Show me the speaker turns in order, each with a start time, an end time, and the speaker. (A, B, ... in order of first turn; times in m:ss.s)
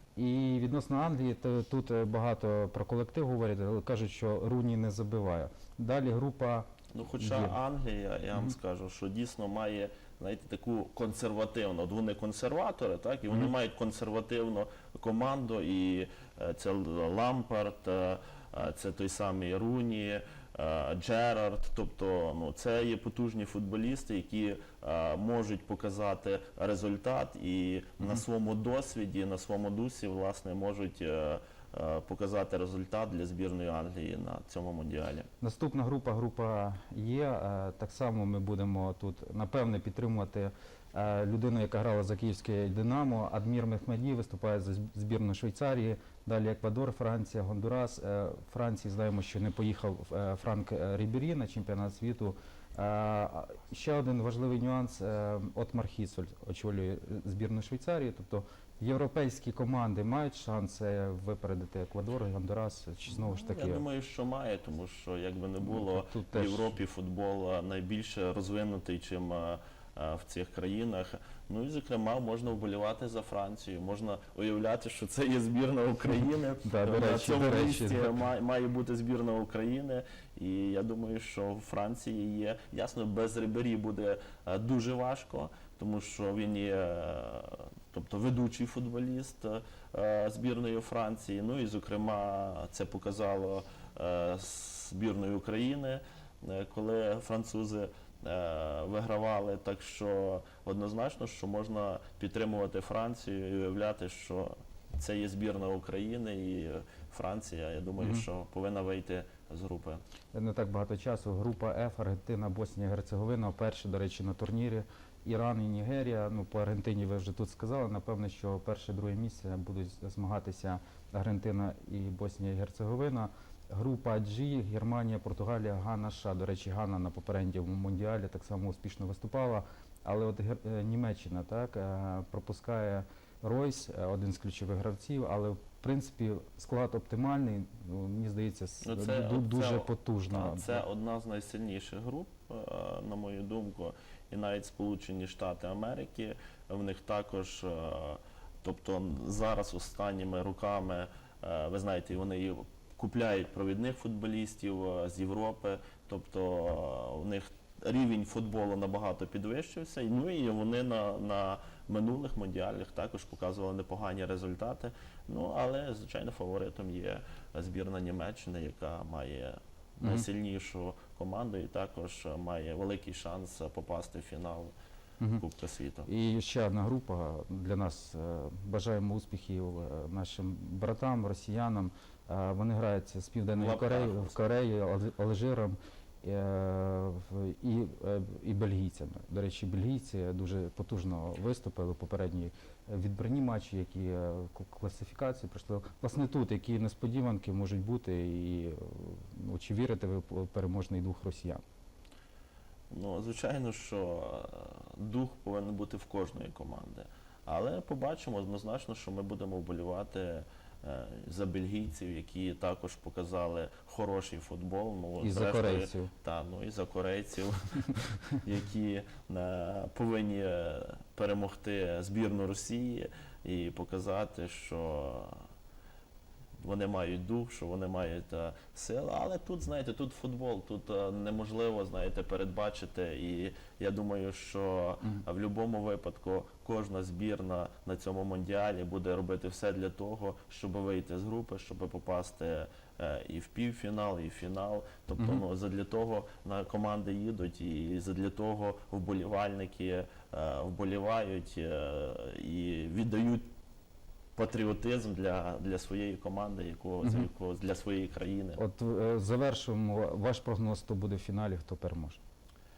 0:00.2-0:06.7 A
0:06.9-0:35.3 B
0:07.2-0:07.6 A
0:35.4-1:03.8 A
1:03.1-1:50.0 B
1:05.6-1:06.8 A
1:16.6-1:18.2 A
1:48.0-1:48.2 A
1:50.3-2:20.8 A
2:18.8-2:54.7 B
2:55.4-2:56.1 B
2:56.1-3:21.6 A
3:03.6-3:04.4 B
3:22.9-3:45.4 B
3:35.2-3:36.1 A
3:46.6-4:13.5 B
4:14.4-4:18.6 B
4:17.0-4:17.3 A
4:18.6-4:22.2 A